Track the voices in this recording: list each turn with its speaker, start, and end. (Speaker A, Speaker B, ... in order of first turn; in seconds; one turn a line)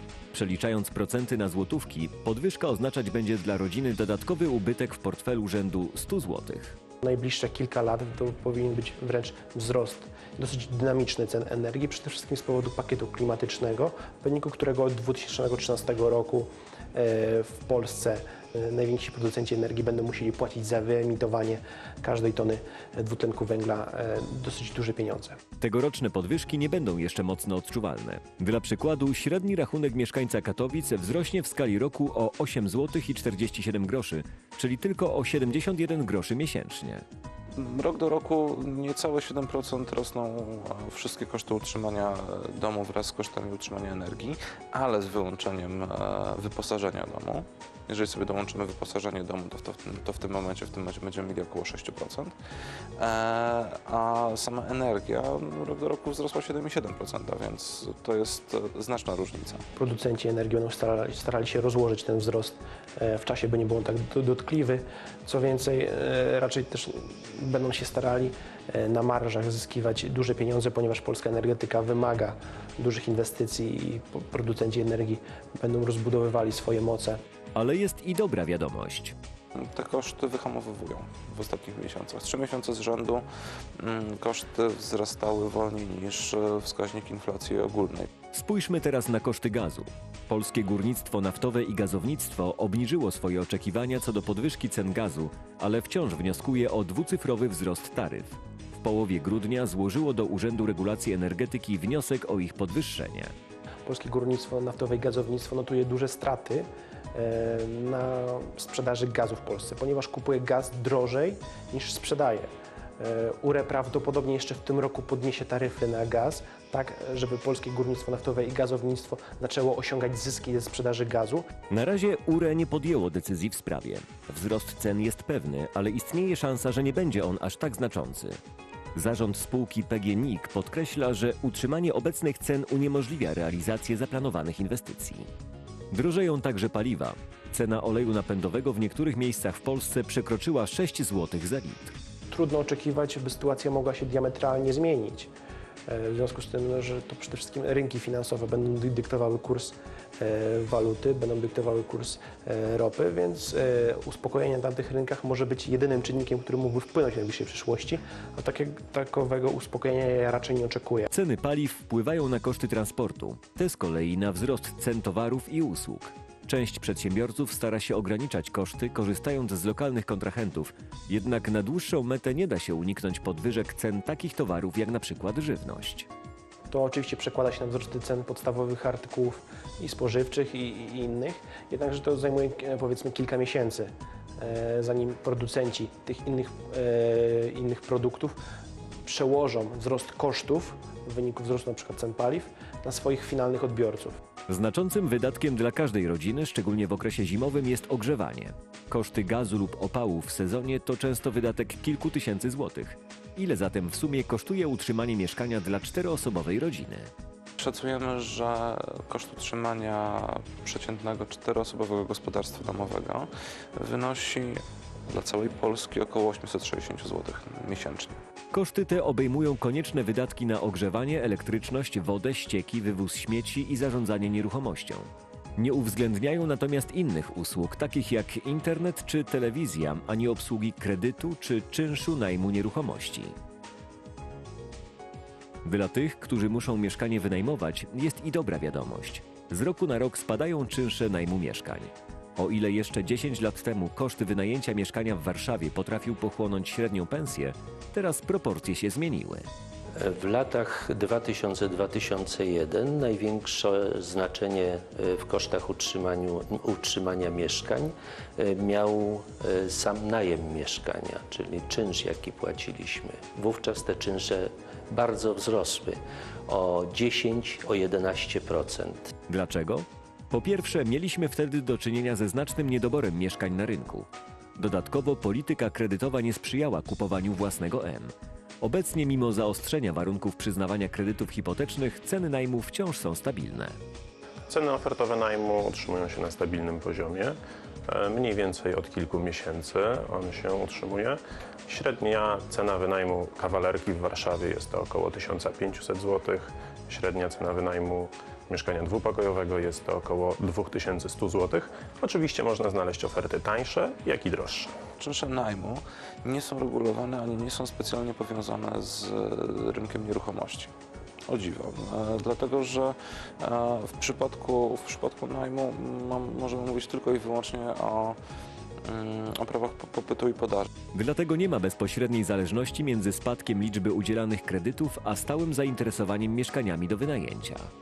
Speaker A: 0.3-6.8
Speaker B: 7.0-25.4
Speaker A: 25.6-37.0
Speaker C: 37.5-52.4
Speaker C: 53.0-59.6
Speaker B: 59.8-77.2
Speaker A: 77.5-79.2
Speaker C: 79.6-83.2
Speaker C: 83.8-88.1
Speaker A: 88.3-103.3
Speaker B: 103.9-121.5
Speaker A: 121.7-128.4
Speaker A: 129.0-135.3
Speaker A: 135.9-141.9
Speaker B: 142.3-145.3
Speaker B: 145.9-161.1
Speaker A: 161.1-176.1
Speaker B: 176.7-188.4
Speaker B: 189.1-194.2
Speaker A: 194.5-207.1
Speaker C: 207.6-218.2
Speaker A: 218.5-233.3
Speaker A: 235.6-249.5
Speaker D: 250.0-269.1
Speaker A: 269.3-283.8
Speaker E: 284.5-287.3
Speaker E: 287.9-291.2
Speaker E: 291.7-304.7
Speaker C: 305.0-310.7
Speaker C: 311.3-318.2
Speaker C: 318.9-320.7
Speaker A: 320.9-327.7